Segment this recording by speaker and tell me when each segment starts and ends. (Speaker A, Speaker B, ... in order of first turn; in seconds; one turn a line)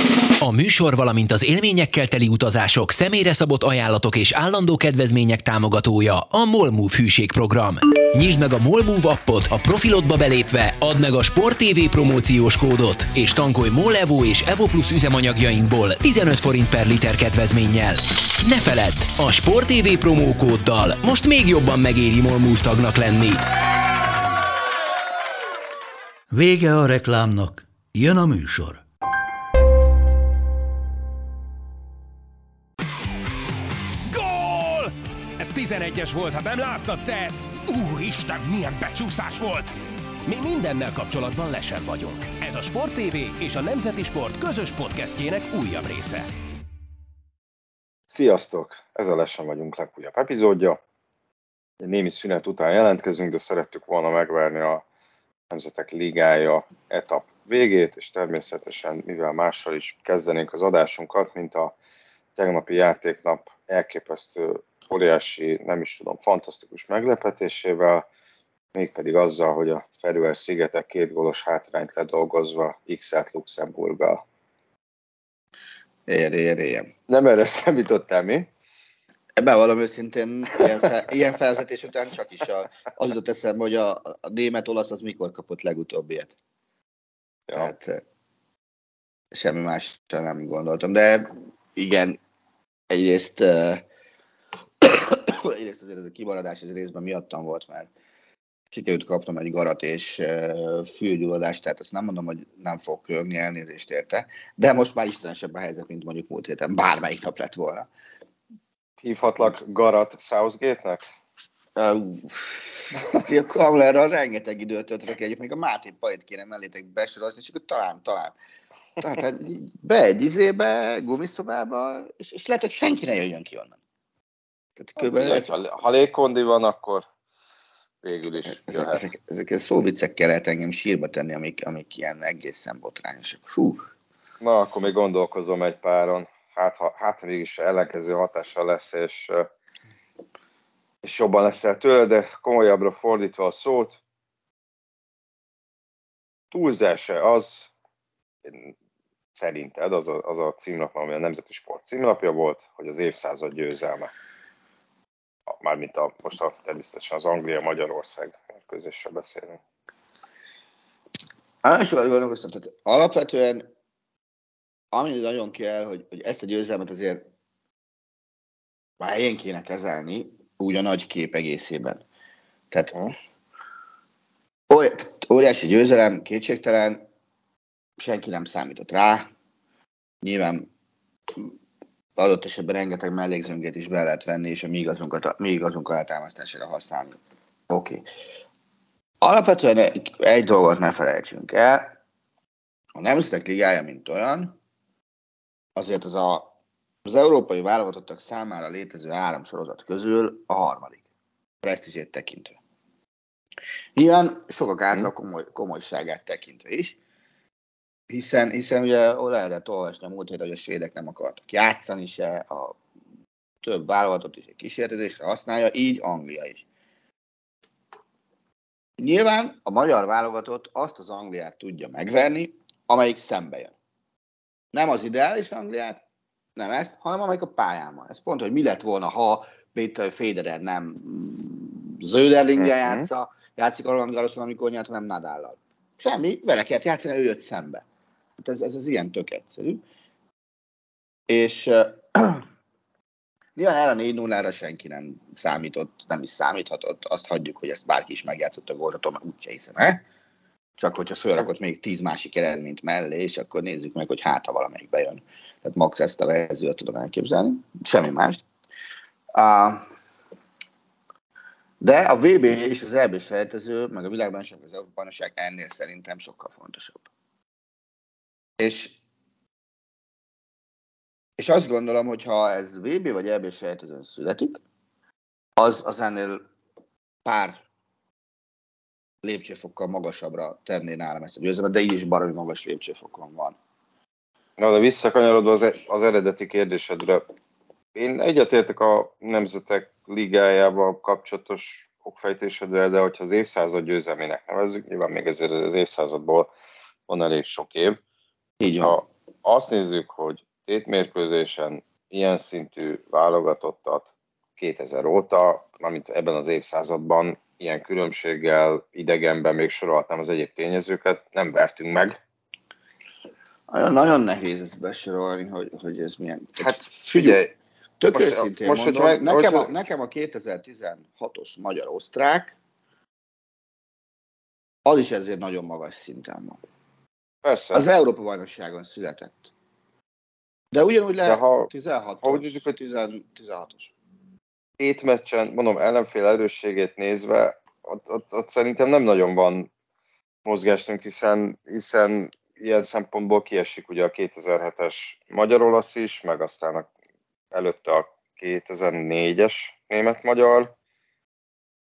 Speaker A: 0.4-23.4
Speaker B: 26.3-28.8
Speaker C: 34.1-39.7
Speaker C: 40.2-46.3
Speaker D: 48.1-50.8
Speaker D: 51.8-54.8
Speaker D: 55.5-61.7
Speaker D: 62.4-68.0
Speaker D: 68.7-74.2
Speaker E: 76.1-76.9
Speaker D: 77.1-78.5
Speaker E: 79.4-86.3
Speaker E: 87.5-88.0
Speaker E: 89.3-92.2
Speaker E: 92.9-93.8
Speaker E: 94.8-97.9
Speaker E: 98.7-107.9
Speaker D: 109.0-111.1
Speaker E: 111.8-118.3
Speaker E: 119.0-123.8
Speaker E: 124.8-125.5
Speaker D: 125.0-127.0
Speaker D: 128.0-129.0
Speaker E: 128.4-133.9
Speaker D: 134.4-139.5
Speaker D: 141.0-144.0
Speaker D: 146.5-147.7
Speaker D: 148.4-148.7
Speaker D: 149.3-154.1
Speaker D: 155.5-159.6
Speaker E: 161.6-163.7
Speaker E: 164.9-167.2
Speaker E: 169.0-172.0
Speaker E: 172.7-173.0
Speaker E: 174.7-177.1
Speaker E: 178.0-179.3
Speaker E: 180.2-180.7
Speaker E: 182.2-187.2
Speaker E: 187.7-188.0
Speaker E: 189.2-191.9
Speaker E: 192.9-194.5
Speaker E: 195.8-196.5
Speaker E: 197.0-201.0
Speaker E: 201.6-202.6
Speaker E: 203.9-207.0
Speaker E: 208.1-212.8
Speaker E: 213.6-216.6
Speaker E: 219.0-223.7
Speaker E: 224.7-226.0
Speaker E: 226.6-237.8
Speaker D: 232.6-233.1
Speaker E: 238.4-239.8
Speaker E: 241.3-242.4
Speaker E: 243.6-250.0
Speaker E: 250.8-258.4
Speaker E: 259.3-259.9
Speaker E: 261.8-267.0
Speaker E: 268.6-269.0
Speaker E: 271.4-274.6
Speaker E: 275.6-276.4
Speaker E: 277.2-277.6
Speaker E: 279.2-283.6
Speaker D: 284.6-287.2
Speaker D: 287.9-296.5
Speaker D: 297.1-298.0
Speaker E: 298.6-299.0
Speaker D: 298.8-312.2
Speaker E: 313.7-317.4
Speaker D: 316.6-317.5
Speaker E: 318.0-322.5
Speaker D: 318.1-319.7
Speaker E: 324.9-326.6
Speaker D: 327.4-327.8
Speaker E: 327.7-329.5
Speaker E: 330.7-333.9
Speaker D: 331.3-331.7
Speaker D: 332.2-332.6
Speaker D: 334.8-339.7
Speaker D: 340.4-346.9
Speaker D: 347.5-350.7